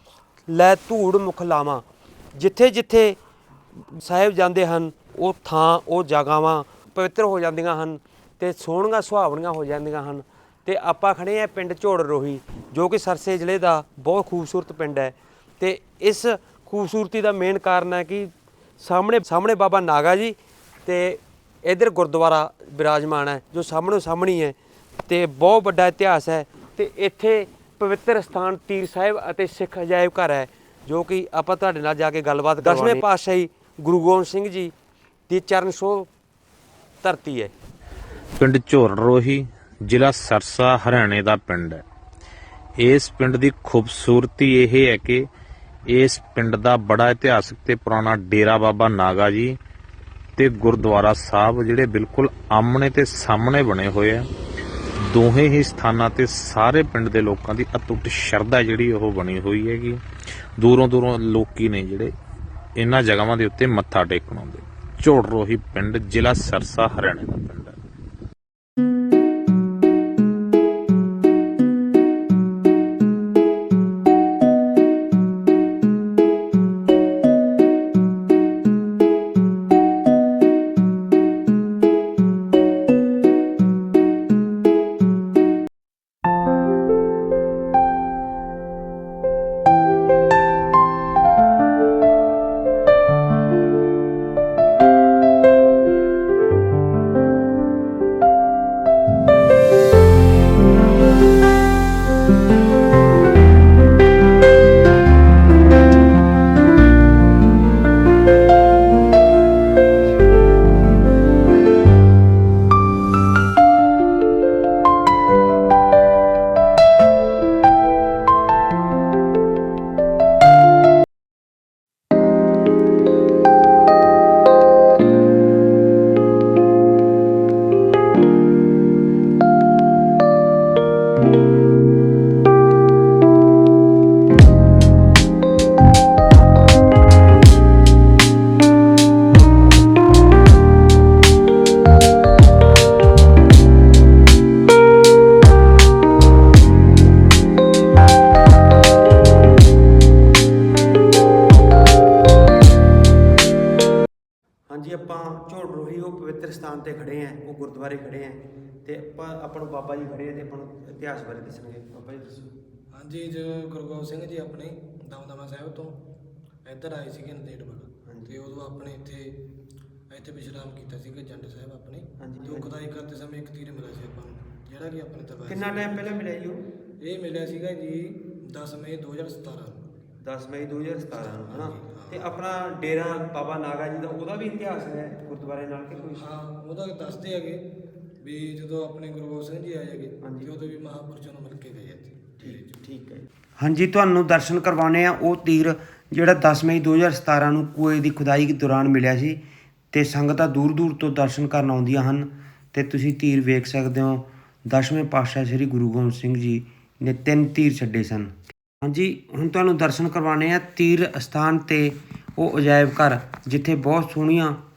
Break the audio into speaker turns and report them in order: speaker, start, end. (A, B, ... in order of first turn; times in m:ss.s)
0:00.5-0:03.2 A
0:03.9-0:34.7 A
0:35.3-0:36.1 A
0:37.0-0:37.5 A
0:38.4-0:41.8 B
0:42.8-0:45.2 B
0:45.9-0:49.6 B
0:50.4-0:54.3 B
0:55.1-1:00.0 B
1:00.6-1:02.1 B
1:02.8-1:07.8 B
2:34.7-2:42.5 A
2:42.9-2:46.0 C
2:46.6-2:49.3 C
2:48.0-2:48.3 A
2:50.1-2:56.0 C
2:52.2-2:52.7 A
2:55.4-2:56.6 A
2:57.0-2:59.8 C
3:00.2-3:06.2 A
3:01.2-3:02.2 C
3:06.2-3:07.6 C
3:08.2-3:12.7 C
3:10.2-3:10.5 A
3:12.4-3:19.4 A
3:19.9-3:34.6 A